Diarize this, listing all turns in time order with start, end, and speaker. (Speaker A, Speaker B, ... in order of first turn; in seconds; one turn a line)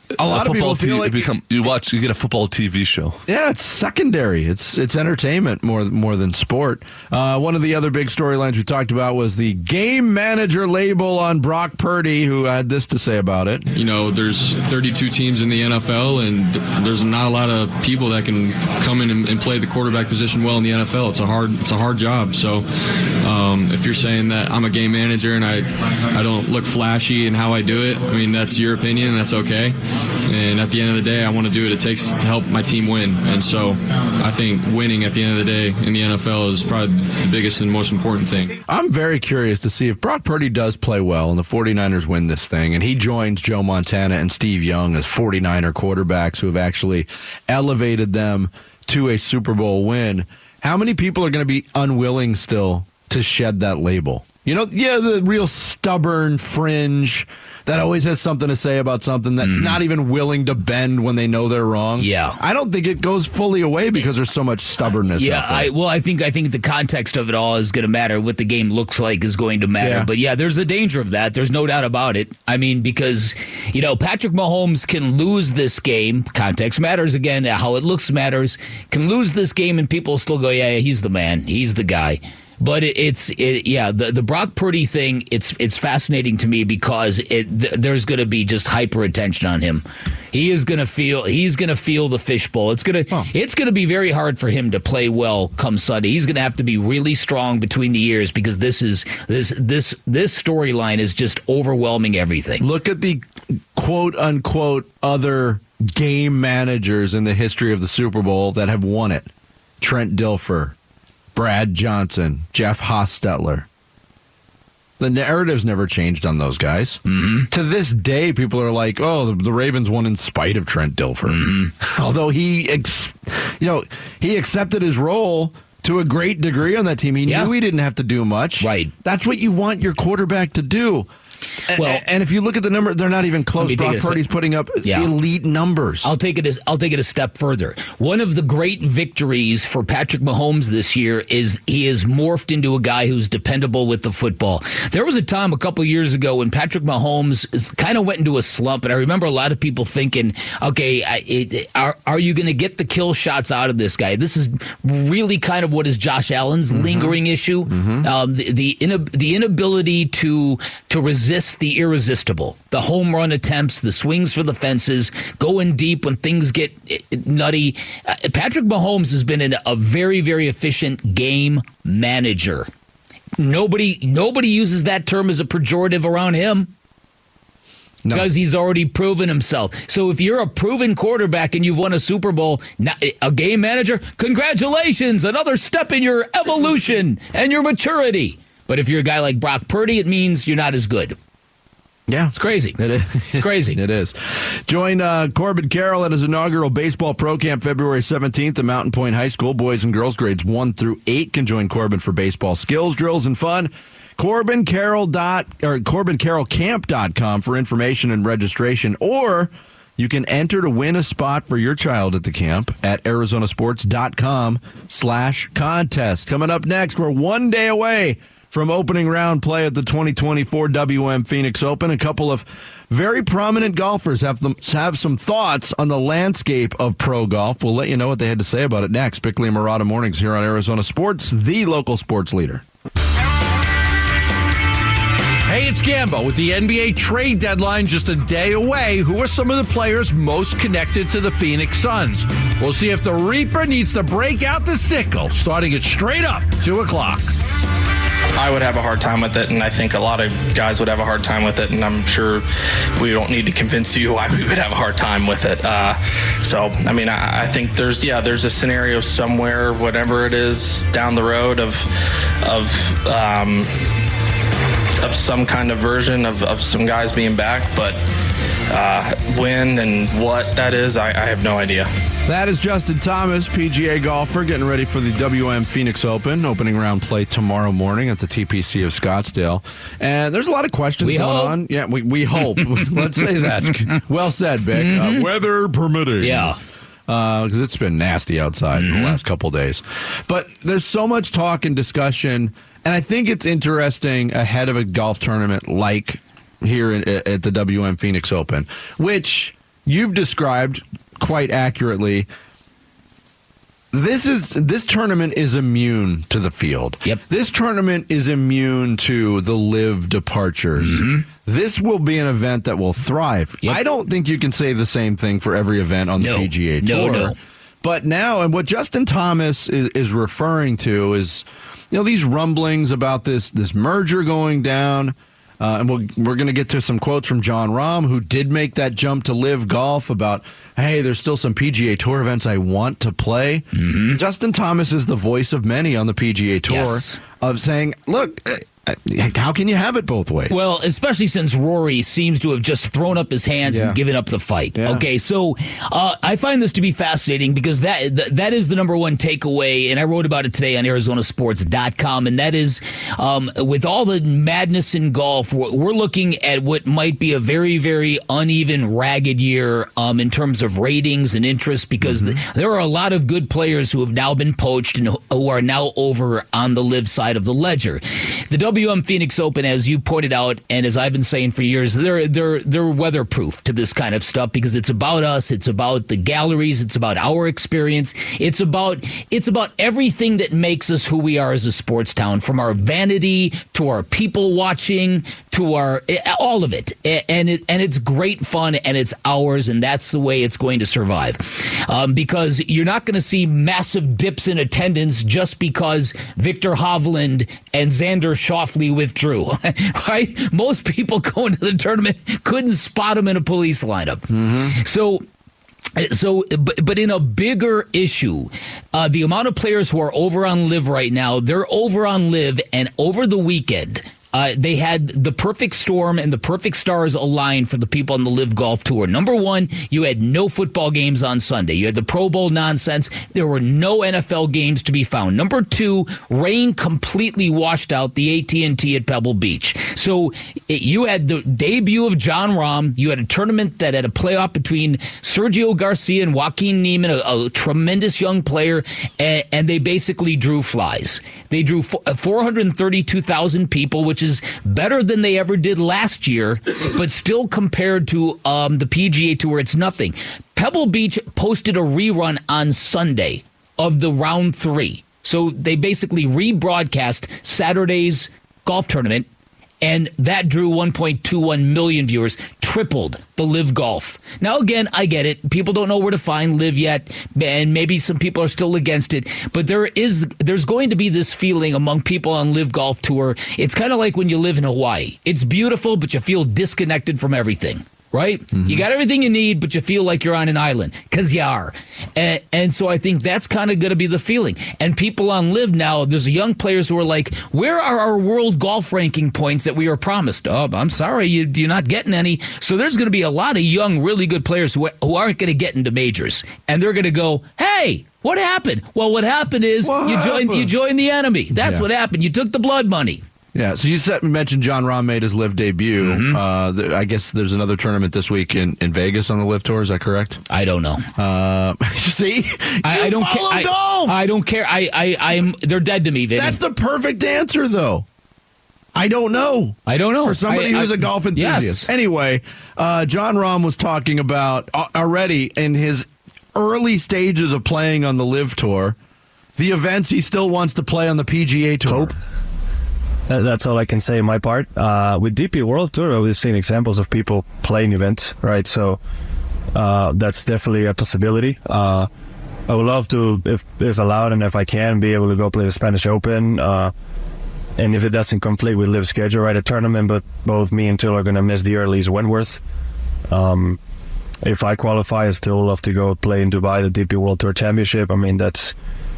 Speaker A: 0.1-1.3
Speaker B: 0.2-3.2
Speaker A: 3.3-13.7
Speaker C: 13.7-22.6
Speaker C: 23.2-29.7
Speaker C: 30.2-38.6
Speaker A: 38.6-65.7
Speaker D: 59.4-59.8
Speaker D: 62.0-62.4
Speaker D: 65.1-102.6
Speaker A: 69.8-70.1
Speaker A: 102.6-109.3
Speaker A: 109.8-110.7
Speaker A: 111.3-113.7
Speaker A: 115.0-117.0
Speaker D: 117.1-117.5
Speaker A: 117.5-131.1
Speaker D: 121.3-121.7
Speaker D: 127.2-127.5
Speaker D: 128.6-128.9
Speaker A: 131.7-136.1
Speaker D: 131.7-132.0
Speaker D: 133.6-134.2
Speaker D: 134.8-135.1
Speaker D: 136.0-172.7
Speaker A: 156.7-158.1
Speaker D: 173.4-176.7
Speaker D: 178.1-191.2
Speaker A: 192.1-232.6
Speaker D: 192.3-192.8
Speaker D: 193.3-193.8
Speaker E: 235.5-247.3
Speaker F: 248.3-252.4
Speaker F: 253.0-261.8
Speaker F: 262.4-263.7
Speaker F: 265.0-268.0
Speaker F: 268.7-271.9
Speaker A: 272.3-286.6
Speaker D: 281.0-281.6
Speaker D: 284.8-285.2
Speaker D: 286.2-286.6
Speaker A: 287.1-302.3
Speaker D: 288.7-289.2
Speaker A: 303.9-340.6
Speaker D: 310.8-311.2
Speaker D: 316.2-317.4
Speaker D: 333.7-334.2
Speaker D: 336.7-337.2
Speaker D: 340.5-405.2
Speaker A: 343.6-344.0
Speaker A: 344.8-345.0
Speaker A: 362.0-362.4
Speaker A: 404.3-404.8
Speaker D: 405.9-459.2
Speaker D: 459.8-503.2
Speaker A: 478.5-478.8
Speaker A: 499.8-500.7
Speaker A: 501.5-501.9
Speaker A: 503.5-510.4
Speaker D: 506.0-506.4
Speaker D: 510.5-511.1
Speaker A: 511.2-514.2
Speaker D: 512.8-516.6
Speaker A: 516.3-518.0
Speaker A: 518.9-529.0
Speaker D: 519.9-521.9
Speaker A: 529.5-532.1
Speaker G: 531.9-532.1
Speaker G: 533.3-539.0
Speaker G: 539.8-542.1
Speaker G: 542.7-546.9
Speaker G: 547.8-552.6
Speaker G: 553.3-553.8
Speaker G: 554.4-558.7